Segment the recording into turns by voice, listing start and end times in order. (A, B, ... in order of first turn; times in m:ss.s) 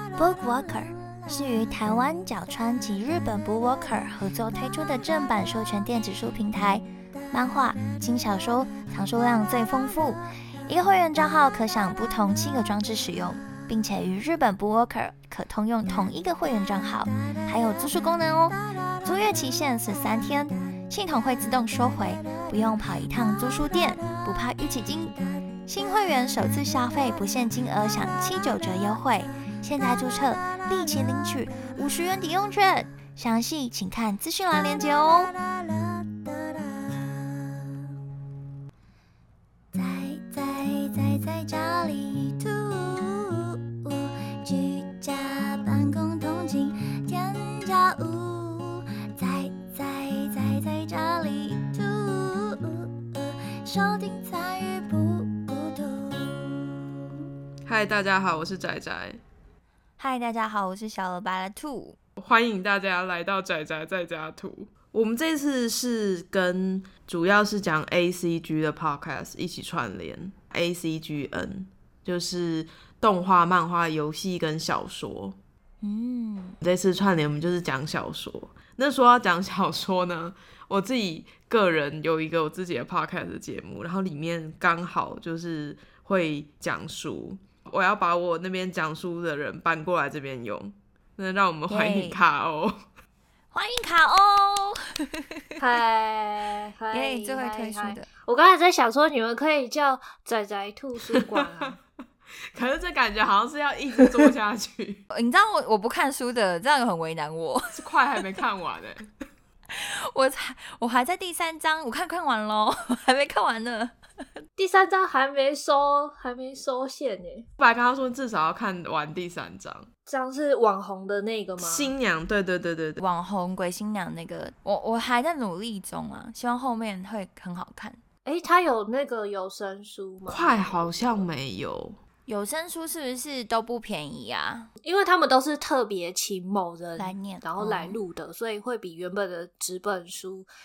0:00.2-0:37.7 A
0:39.7-0:56.7 A
0:57.6-0:59.2 B
1:00.0-1:02.0 A
1:02.2-1:15.4 B
1:15.8-1:16.6 A
1:16.6-1:32.8 B
1:31.7-1:32.2 A
1:33.5-1:35.5 A
1:35.6-1:41.8 C
1:36.9-1:38.1 A
1:41.1-1:41.7 B
1:42.5-1:45.0 B
1:45.1-1:48.2 A
1:47.7-1:49.1 B
1:49.7-1:53.9 A
1:54.6-1:57.5 C
1:57.6-1:59.9 B
2:00.1-2:01.9 C
2:01.6-2:03.0 B
2:03.0-2:08.0 A
2:08.2-2:11.3 C
2:10.3-2:12.0 B
2:12.2-2:14.7 A
2:14.8-2:20.5 C
2:17.0-2:18.0 A